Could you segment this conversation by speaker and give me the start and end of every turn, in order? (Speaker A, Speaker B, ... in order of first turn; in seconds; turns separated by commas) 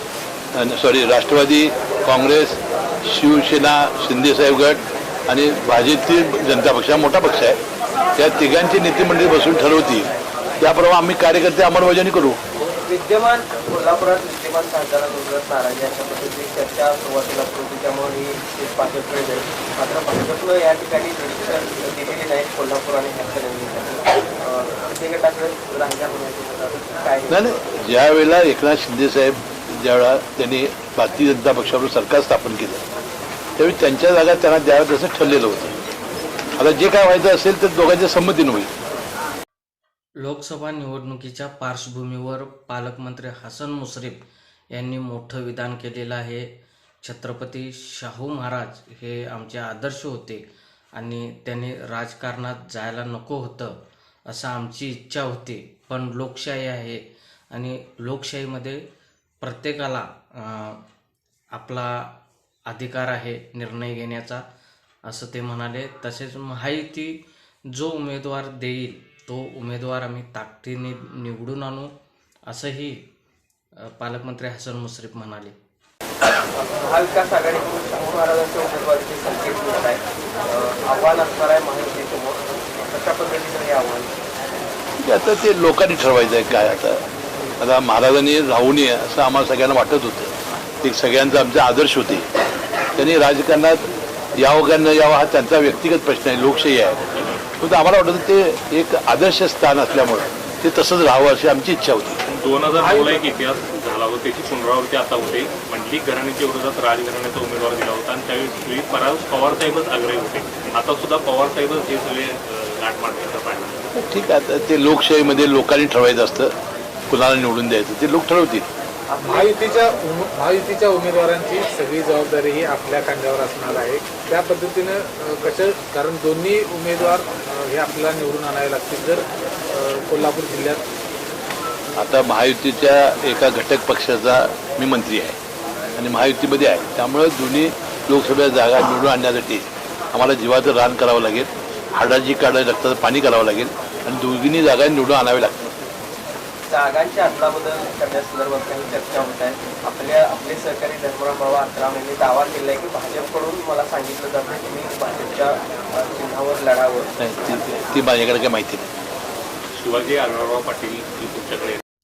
Speaker A: 0.6-7.6, Speaker A: 8.2-10.1, Speaker A: 10.6-12.4, Speaker B: 12.8-27.6, Speaker A: 27.3-32.8, Speaker A: 33.6-35.8, Speaker A: 36.6-38.7, Speaker C: 40.2-44.2, Speaker C: 44.7-46.5, Speaker C: 47.0-50.4, Speaker C: 51.0-53.8, Speaker C: 54.3-58.8, Speaker C: 59.4-60.8, Speaker C: 61.5-62.1, Speaker C: 62.7-64.4, Speaker C: 65.0-71.9, Speaker C: 72.5-73.0, Speaker C: 73.9-75.5, Speaker B: 76.6-84.1, Speaker A: 85.0-87.0, Speaker A: 87.6-92.3, Speaker A: 93.0-93.8, Speaker A: 94.4-97.0, Speaker D: 97.1-97.4, Speaker A: 97.6-102.2, Speaker D: 102.3-113.8, Speaker E: 102.9-103.2, Speaker A: 114.0-116.5, Speaker A: 117.1-118.7, Speaker B: 119.1-119.6, Speaker E: 119.2-130.8, Speaker A: 132.0-135.4, Speaker A: 136.0-145.7, Speaker B: 146.7-157.1, Speaker A: 157.2-158.9, Speaker D: 159.7-161.8